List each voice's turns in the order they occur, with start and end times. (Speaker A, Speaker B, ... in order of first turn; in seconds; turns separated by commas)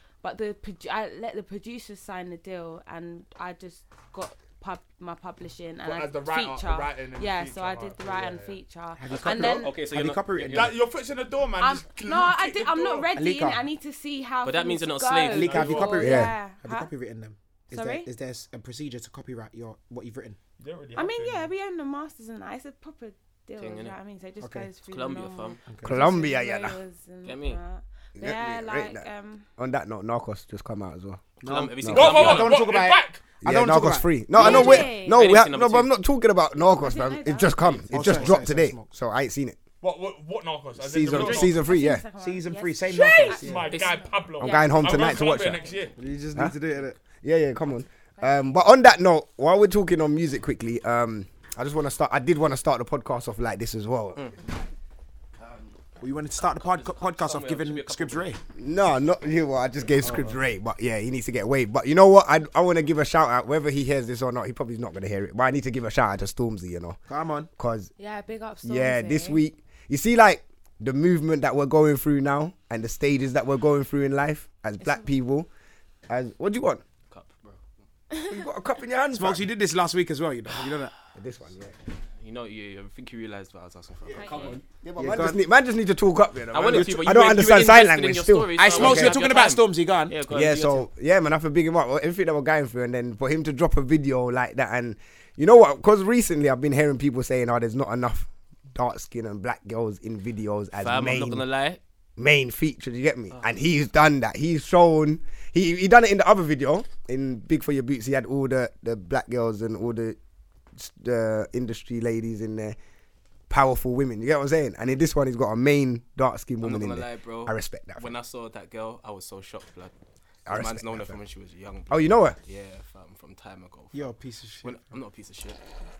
Speaker A: 0.2-9.7, Speaker B: 5.8-8.6, Speaker C: 9.0-10.8, Speaker D: 9.1-10.7, Speaker B: 10.5-13.1, Speaker A: 11.6-16.9, Speaker C: 13.2-13.6, Speaker D: 14.4-15.6, Speaker C: 15.3-20.4, Speaker B: 15.3-16.2, Speaker E: 16.0-16.3, Speaker A: 17.7-18.1, Speaker B: 20.6-21.5, Speaker A: 20.9-29.4, Speaker D: 23.6-23.9, Speaker C: 24.4-24.7, Speaker D: 24.9-25.6, Speaker C: 25.7-26.0, Speaker E: 25.8-26.8, Speaker D: 27.2-27.6, Speaker E: 28.2-29.0, Speaker E: 29.6-31.2, Speaker C: 31.4-34.9, Speaker D: 31.4-32.6, Speaker E: 31.8-32.3, Speaker B: 31.9-33.3, Speaker E: 33.4-39.6, Speaker A: 34.4-35.2, Speaker D: 34.4-35.9, Speaker A: 36.8-37.6, Speaker D: 37.5-38.4, Speaker C: 37.9-38.9, Speaker B: 39.8-41.6, Speaker E: 40.8-42.0, Speaker D: 41.0-41.5, Speaker A: 41.6-45.9, Speaker C: 42.2-43.8, Speaker B: 42.9-45.9, Speaker E: 44.4-45.6, Speaker C: 46.0-47.0, Speaker E: 47.2-54.3, Speaker E: 55.4-55.7, Speaker C: 56.0-58.4, Speaker D: 56.4-58.3, Speaker E: 58.6-67.0, Speaker C: 60.0-60.4, Speaker C: 67.1-67.5, Speaker E: 67.6-67.9, Speaker A: 68.0-69.4, Speaker E: 68.6-75.5, Speaker A: 74.8-75.2, Speaker E: 76.1-76.8, Speaker D: 77.1-77.6, Speaker E: 78.3-79.5, Speaker C: 79.1-80.9, Speaker E: 81.1-81.7, Speaker D: 82.2-84.6, Speaker A: 84.1-84.6, Speaker B: 84.1-84.6, Speaker E: 84.6-89.2, Speaker C: 85.0-85.4, Speaker D: 86.5-90.9, Speaker C: 86.7-87.0, Speaker C: 88.6-90.2, Speaker E: 90.3-101.4, Speaker D: 100.8-101.8, Speaker E: 102.2-110.2, Speaker E: 110.8-112.8, Speaker E: 113.5-118.1, Speaker D: 116.6-119.9, Speaker E: 120.5-121.2, Speaker D: 120.5-124.1, Speaker E: 121.9-122.3, Speaker C: 123.9-124.8, Speaker D: 124.6-125.6